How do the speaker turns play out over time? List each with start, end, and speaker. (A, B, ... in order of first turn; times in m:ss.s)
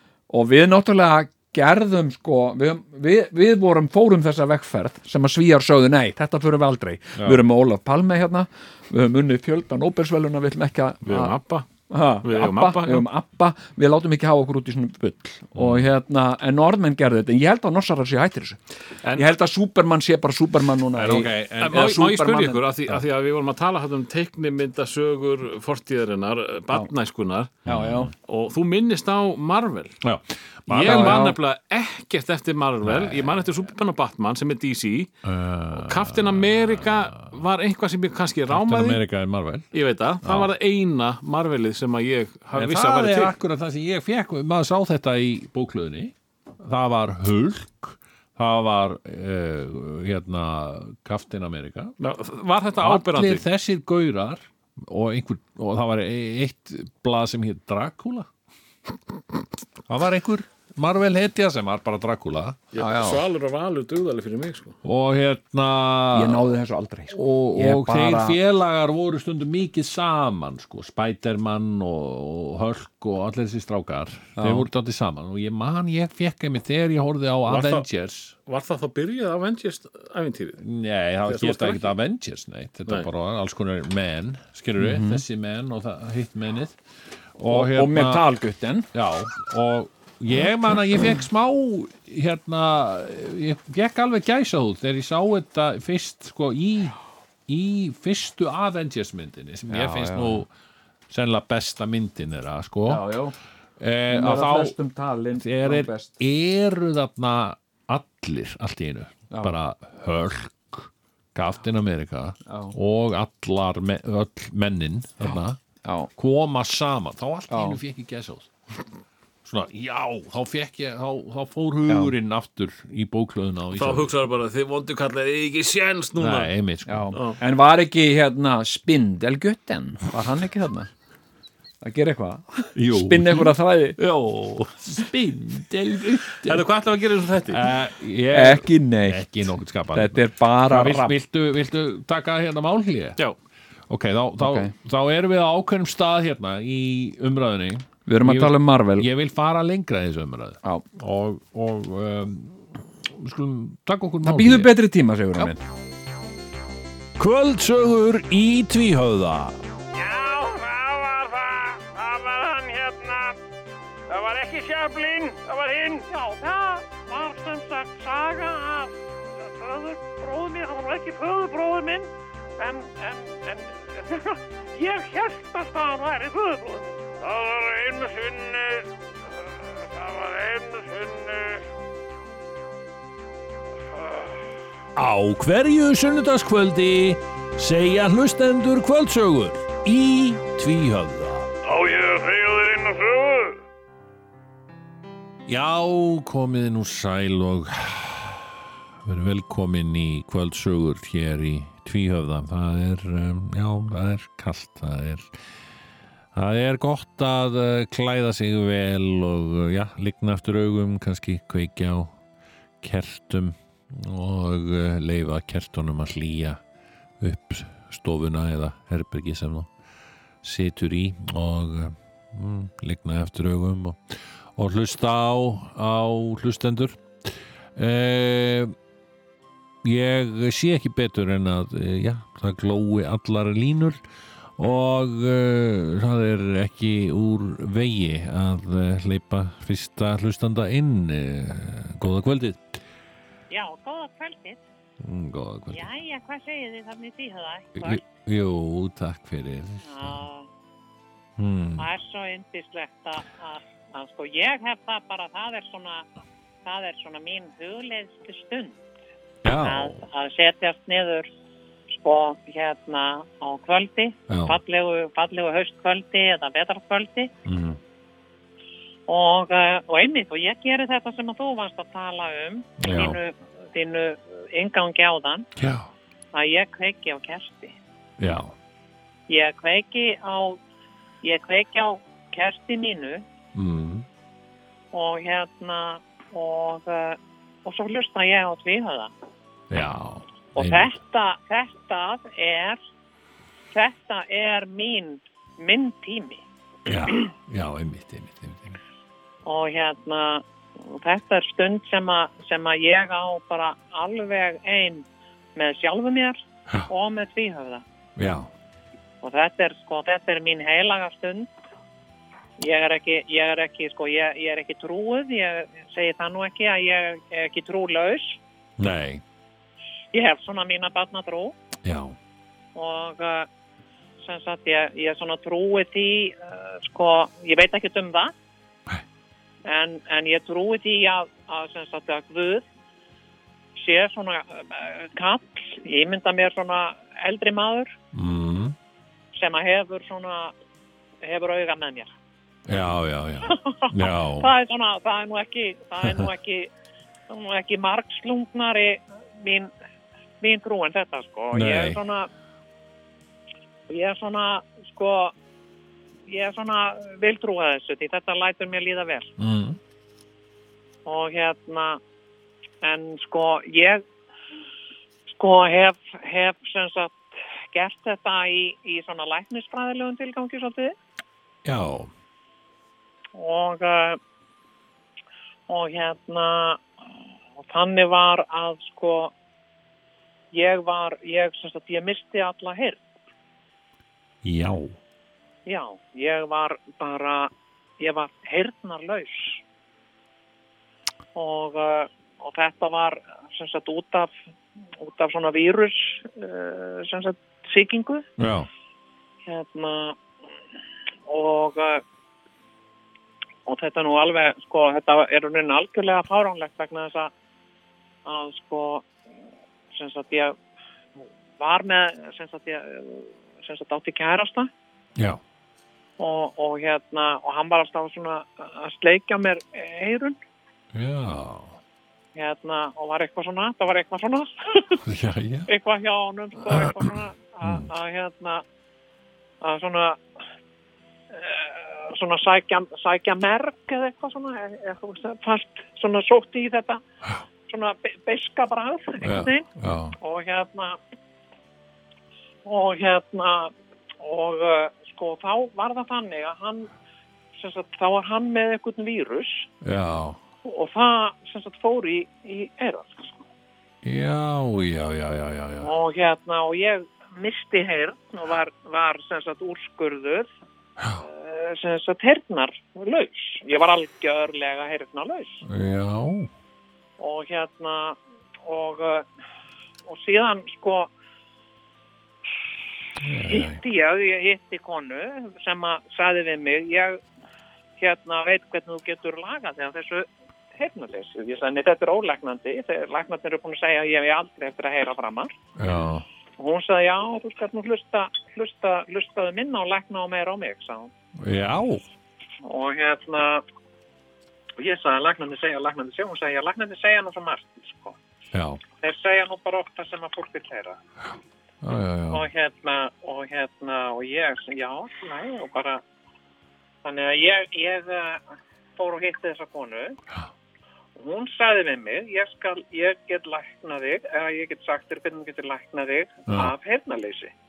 0:00.3-0:11.4 A
0:11.0-0:11.6 B
0:11.9-0:18.6 A
0:12.2-0:13.1 B
0:15.5-0:15.9 C
0:19.1-0:22.7 A
0:20.9-0:22.0 C
0:21.6-0:27.6 B
0:27.6-0:28.1 A
0:27.6-0:28.1 C
0:28.2-0:30.0 B
0:30.0-0:31.3 C
0:30.7-0:39.0 B
0:30.8-0:31.4 A
0:32.8-0:33.4 C
0:35.2-0:37.3 C
0:38.5-0:39.7 C
0:39.7-0:43.3 B
0:40.2-0:40.5 C
0:42.5-0:52.0 C
0:52.0-0:53.4 B
0:52.8-0:58.3 C
0:59.9-1:02.6 C
1:02.7-1:04.8 B
1:02.8-1:03.2 A
1:04.8-1:06.5 C
1:06.1-1:08.4 A
1:07.1-1:18.3 C
1:14.4-1:14.7 A
1:17.5-1:17.9 B
1:18.5-1:20.6 B
1:20.6-1:26.8 C
1:21.2-1:21.9 B
1:24.8-1:25.2 A
1:27.4-1:28.2 C
1:27.5-1:28.9 A
1:28.9-1:40.5 C
1:39.7-1:40.4 A
1:41.1-1:43.1 C
1:42.8-1:43.4 A
1:43.8-1:44.8 C
1:44.1-1:46.1 A
1:45.3-1:55.6 C
1:49.3-1:49.5 A
1:52.4-1:52.8 A
1:55.8-1:56.1 A
1:56.2-1:58.5 C
1:57.5-1:57.8 A
1:59.4-2:04.1 C
2:01.9-2:02.1 A
2:03.7-2:06.5 B
2:06.2-2:07.1 C
2:06.9-2:10.9 A
2:07.1-2:07.4 B
2:11.8-2:14.0 A
2:12.7-2:16.6 C
2:16.4-2:17.7 B
2:17.4-2:23.2 C
2:18.3-2:19.3 A
2:19.9-2:21.2 A
2:23.9-2:34.8 C
2:24.4-2:24.7 A
2:28.1-2:29.1 A
2:34.2-2:35.6 A
2:37.2-2:39.6 C
2:40.0-2:43.3 D
2:44.1-2:58.8 D
2:59.9-3:01.5 D
3:04.9-3:11.5 C
3:15.5-3:25.3 C
3:26.3-3:32.2 C
3:32.8-3:36.6 C
3:37.2-3:39.7 C
3:40.4-3:48.7 C
3:49.8-3:54.0 C
3:54.6-4:02.8 C
4:03.5-4:04.6 D
4:05.0-4:05.9 C
4:05.7-4:08.0 D
4:07.8-4:10.2 C
4:09.8-4:10.5 D
4:11.4-4:11.9 C
4:11.8-4:16.0 D
4:16.6-4:18.8 D
4:19.4-4:20.0 C
4:19.5-4:21.3 D
4:21.9-4:27.3 D
4:24.3-4:24.6 C
4:27.4-4:27.8 C
4:29.1-4:35.4 D
4:32.8-4:33.2 C
4:35.6-4:35.9 C
4:36.3-4:37.7 D
4:38.2-4:38.5 C
4:39.3-4:40.6 D
4:41.2-4:43.2 D
4:43.5-4:44.0 C
4:44.9-4:49.1 D
4:49.7-4:50.9 C
4:50.5-4:52.8 D
4:53.7-4:56.4 D
4:56.8-4:58.8 C
4:59.4-5:07.8 D
5:08.2-5:08.5 C
5:09.2-5:11.5 D
5:12.6-5:18.4 D
5:18.8-5:19.2 C
5:20.1-5:21.5 D
5:21.8-5:22.2 C
5:22.7-5:23.5 D
5:24.2-5:28.3 D
5:29.6-5:32.6 D
5:33.8-5:37.9 D
5:38.1-5:38.8 C
5:39.3-5:40.5 D
5:41.2-5:42.1 D
5:42.7-5:44.5 C
5:43.4-5:46.7 D
5:46.0-5:46.3 C
5:47.3-5:49.7 D
5:50.4-5:52.3 D
5:51.5-5:52.0 C
5:53.9-5:55.3 D
5:56.3-5:59.3 D
5:59.4-5:59.8 C
6:01.0-6:02.0 D
6:02.8-6:04.0 D
6:05.3-6:10.9 D
6:11.6-6:12.1 C
6:13.3-6:14.2 D
6:15.7-6:16.8 D
6:17.6-6:19.3 D
6:20.5-6:23.0 D
6:24.4-6:25.0 C
6:25.6-6:29.6 D
6:31.3-6:34.3 D
6:35.0-6:38.2 D
6:38.4-6:38.7 C
6:39.4-6:40.2 D
6:41.3-6:42.0 D
6:43.6-6:47.3 D
6:48.2-6:49.1 D
6:49.9-6:50.6 D
6:51.2-6:54.7 D
6:56.2-7:00.4 D
7:00.9-7:01.8 C
7:02.3-7:05.0 D
7:05.0-7:05.7 C
7:05.7-7:08.6 D
7:06.7-7:07.9 C
7:09.6-7:10.2 D
7:11.3-7:17.0 D
7:17.7-7:19.6 D
7:19.2-7:20.2 C
7:20.2-7:21.0 D
7:22.6-7:26.9 D
7:27.5-7:29.7 D
7:29.8-7:30.4 C
7:30.6-7:33.4 D
7:34.0-7:35.9 C
7:35.8-7:40.5 D
7:41.0-7:41.2 C
7:41.2-7:45.6 D
7:45.6-7:46.5 C
7:47.2-7:49.3 D
7:50.0-7:51.1 D
7:53.2-7:53.8 C
7:53.4-7:57.2 D
7:58.0-8:05.5 D
8:05.8-8:06.2 C
8:06.6-8:11.1 D
8:11.4-8:12.0 C
8:12.6-8:13.6 D
8:14.8-8:18.2 D
8:18.5-8:18.8 C
8:18.9-8:21.0 D
8:21.8-8:22.4 C
8:22.3-8:26.0 D
8:27.0-8:28.4 D
8:29.0-8:30.2 D
8:31.2-8:37.5 D
8:36.5-8:36.7 C